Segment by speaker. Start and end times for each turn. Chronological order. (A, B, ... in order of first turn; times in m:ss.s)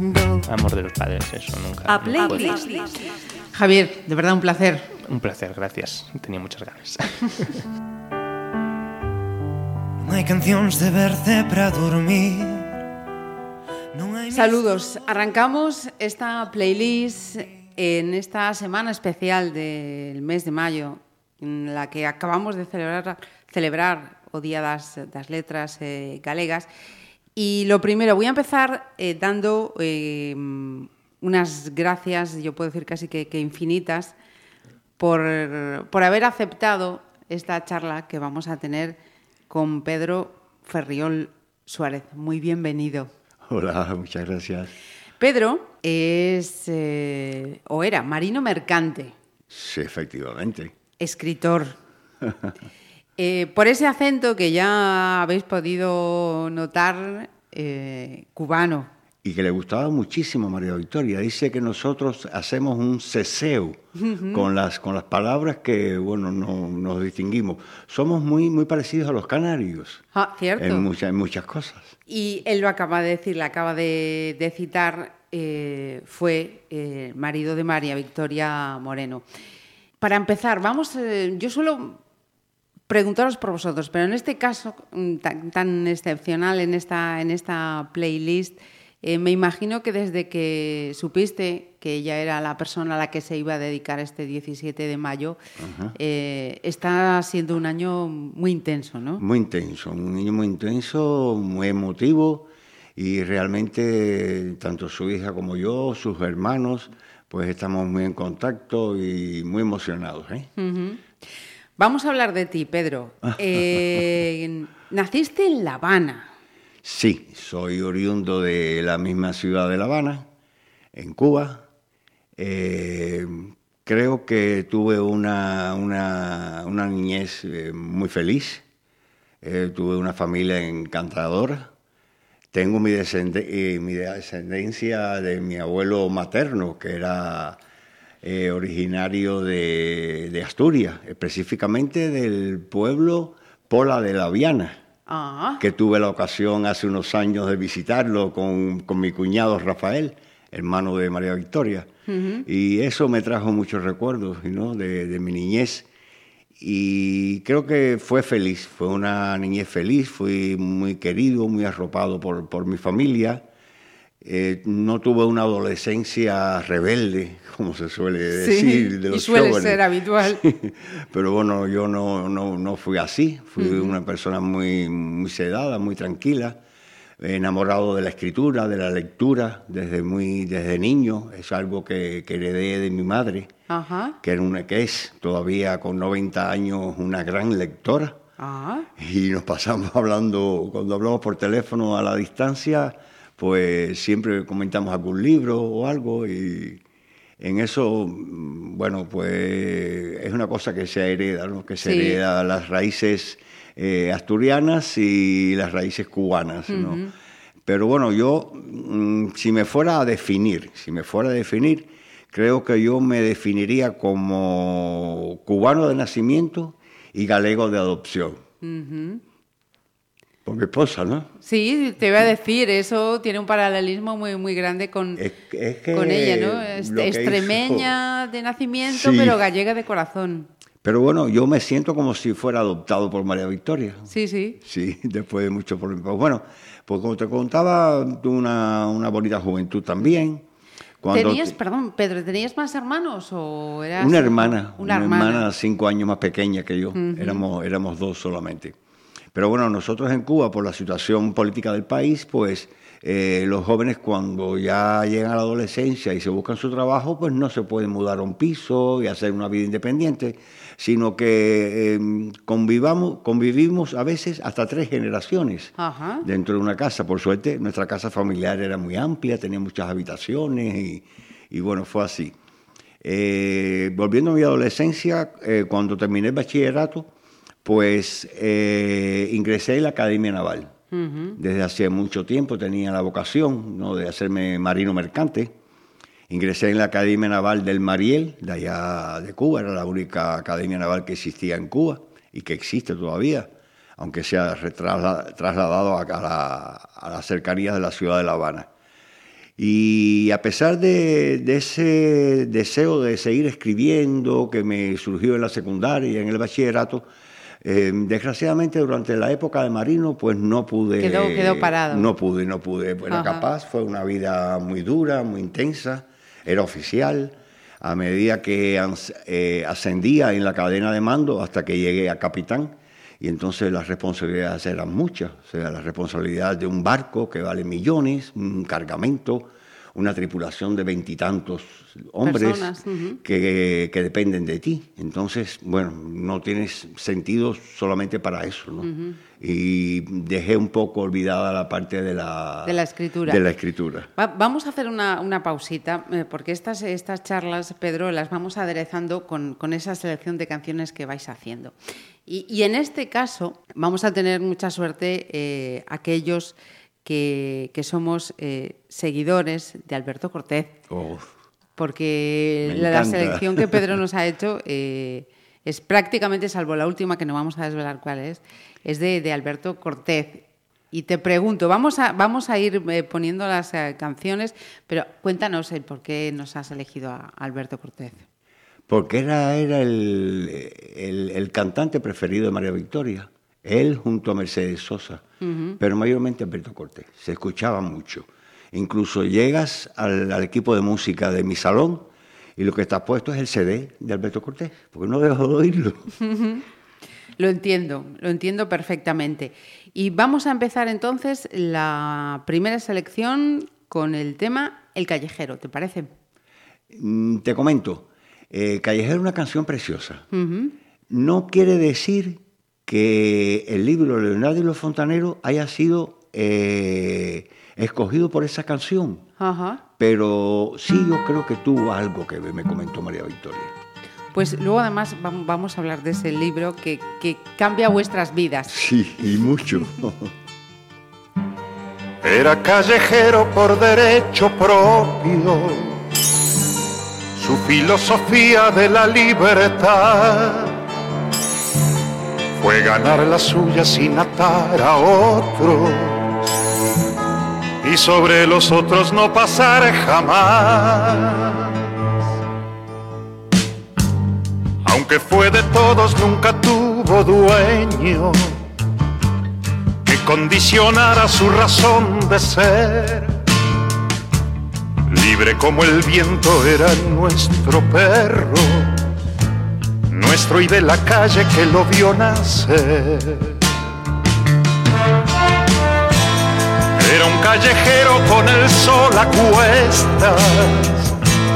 0:00.2-0:02.8 A
0:01.9-0:02.9 B
0:03.5-0:04.9 B
0:05.0-0:07.6 A
0:10.0-0:12.8 C
0:13.9-0:14.6 C
0:14.3-0:26.7 B
0:27.4-0:34.2 B
0:35.0-0:39.0 B
0:39.5-0:43.1 B
0:43.5-0:44.8 D
0:45.2-0:49.2 B
0:49.5-0:50.7 D
0:51.0-0:51.8 B
0:52.2-0:52.5 D
0:53.2-0:58.9 B
0:59.2-1:10.0 D
1:04.0-1:04.5 B
1:10.1-1:10.9 B
1:10.6-1:12.0 D
1:12.1-1:19.2 B
1:20.0-1:22.0 B
1:22.9-1:35.4 B
1:35.6-1:36.0 D
1:36.0-1:39.2 B
1:39.2-1:50.5 D
1:50.6-1:51.0 B
1:51.8-1:56.3 B
1:53.3-1:54.0 D
1:56.8-2:00.3 D
2:00.9-2:01.6 D
2:02.4-2:08.6 D
2:09.4-2:11.7 D
2:12.5-2:17.6 D
2:18.2-2:24.8 D
2:25.1-2:25.6 B
2:25.6-2:31.9 D
2:32.1-2:32.5 B
2:32.4-2:35.9 D
2:36.6-2:43.5 D
2:44.2-2:56.6 D
2:48.3-2:50.4 B
2:53.6-2:54.0 B
2:57.2-3:03.5 D
3:03.7-3:04.2 B
3:04.2-3:08.2 D
3:08.4-3:08.9 B
3:09.0-3:16.8 D
3:17.4-3:27.0 D
3:21.8-3:22.2 B
3:26.7-3:27.1 B
3:27.7-3:38.4 D
3:38.6-3:39.2 B
3:40.4-3:41.3 D
3:41.4-3:45.2 B
3:45.2-3:47.9 D
3:45.9-3:50.5 B
3:48.9-3:49.4 D
3:50.8-3:54.1 D
3:54.1-3:54.6 B
3:54.6-4:00.5 D
4:01.0-4:01.6 D
4:01.1-4:05.5 B
4:04.0-4:08.8 D
4:07.0-4:07.4 B
4:09.3-4:32.4 D
4:25.8-4:26.3 B
4:33.0-4:37.1 D
4:37.6-4:40.7 D
4:40.9-4:41.4 B
4:41.4-4:45.5 D
4:46.3-4:58.7 D
4:59.6-5:07.1 D
5:07.6-5:44.1 D
5:11.0-5:12.1 B
5:13.1-5:13.5 B
5:32.2-5:33.2 B
5:38.8-5:39.2 B
5:42.6-5:43.4 B
5:44.2-5:51.8 B
5:52.3-6:00.8 B
6:00.9-6:01.3 D
6:01.8-6:18.2 B
6:02.6-6:04.0 D
6:18.9-6:25.2 D
6:25.4-6:25.8 B
6:25.8-6:36.1 D
6:36.2-6:36.6 B
6:37.4-6:46.1 B
6:46.9-6:50.3 D
6:50.3-6:50.8 B
6:51.1-6:59.2 D
6:59.4-6:59.8 B
7:00.0-7:03.7 D
7:04.3-7:08.8 B
7:08.7-7:10.3 D
7:12.2-7:16.0 E
7:17.4-7:20.8 E
7:22.6-7:26.4 E
7:27.8-7:31.8 E
7:34.8-7:38.6 E
7:40.0-7:43.4 E
7:45.1-7:49.0 E
7:50.1-7:53.6 E
7:57.0-8:01.1 E